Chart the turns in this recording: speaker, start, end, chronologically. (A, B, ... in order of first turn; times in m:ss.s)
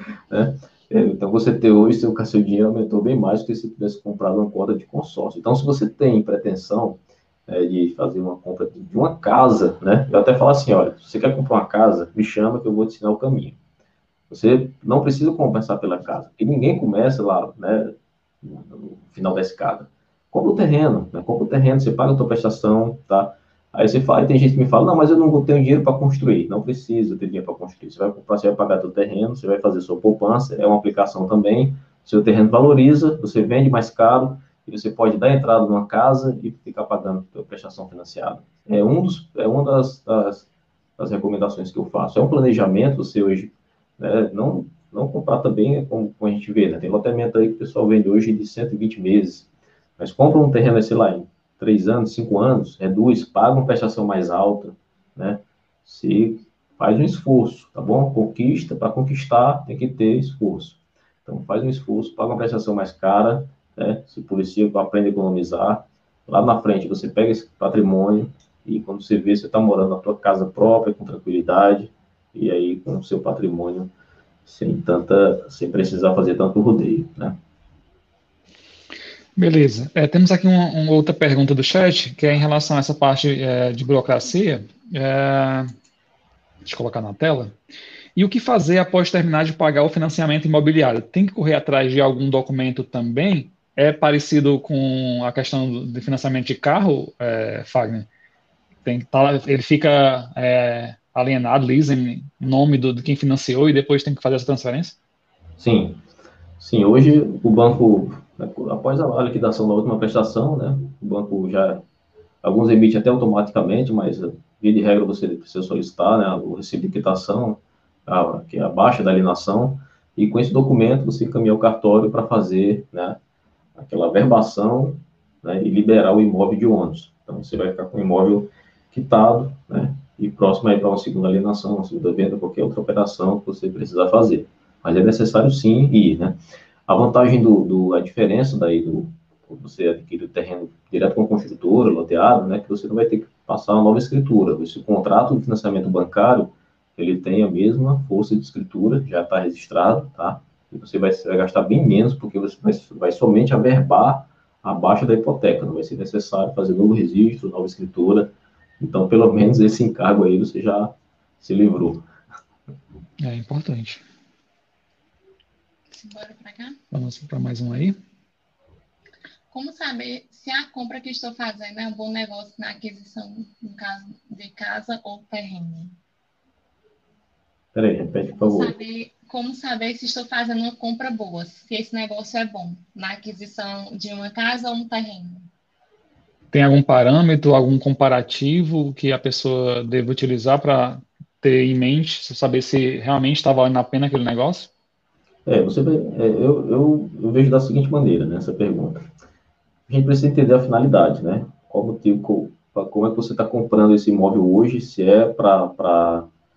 0:00.3-0:13.6 A
0:14.3-1:13.9 A
1:14.5-1:17.4 A
1:19.4-1:25.7 B
1:26.6-1:27.6 B
1:28.2-1:38.1 B
1:38.8-1:45.0 B
1:45.6-1:46.0 A
1:46.6-1:51.8 A
1:52.4-2:03.2 A
2:03.8-2:42.1 A
2:43.2-2:44.0 B
2:45.9-2:46.8 C
2:46.9-2:48.0 B
2:49.5-2:56.0 C
2:57.8-2:58.8 A
2:58.3-3:05.5 C
3:06.5-3:14.7 B
3:15.5-3:19.1 A
3:19.9-3:26.3 A